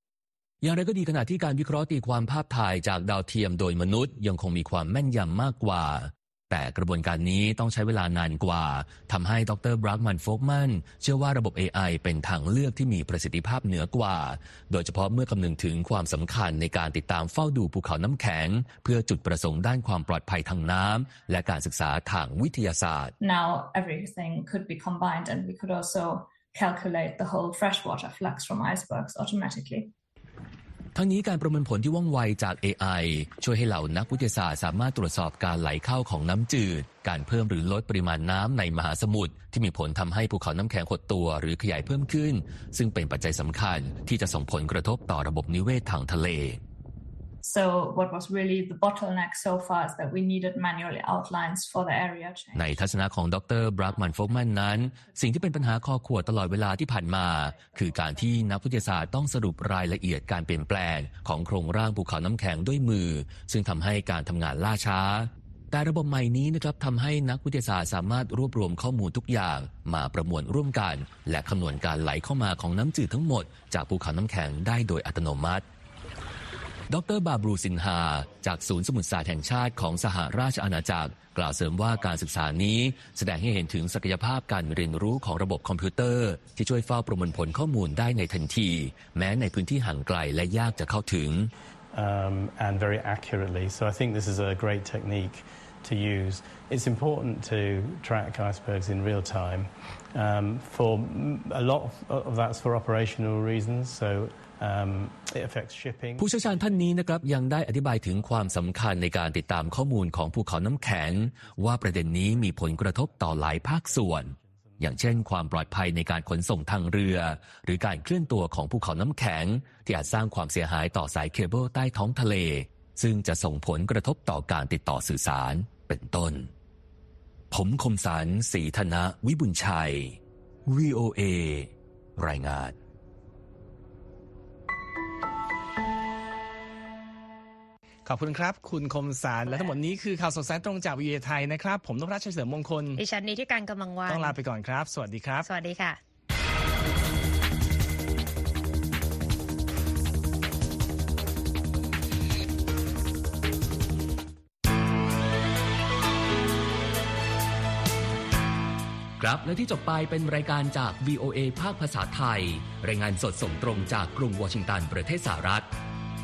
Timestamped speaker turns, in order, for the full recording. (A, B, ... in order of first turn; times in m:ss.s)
0:00.6-0:23.2 A
0:23.2-0:29.9 B
0:31.0-0:46.6 A
0:47.4-0:58.5 B
0:52.5-1:15.7 A
1:16.9-1:31.5 A
1:31.9-1:46.9 C
1:46.2-2:06.5 A
1:51.4-1:55.2 C
2:07.5-2:12.8 A
2:18.0-2:23.0 D
2:23.0-2:24.4 E
2:24.1-2:25.5 D
2:25.4-2:26.0 E
2:39.2-2:45.7 A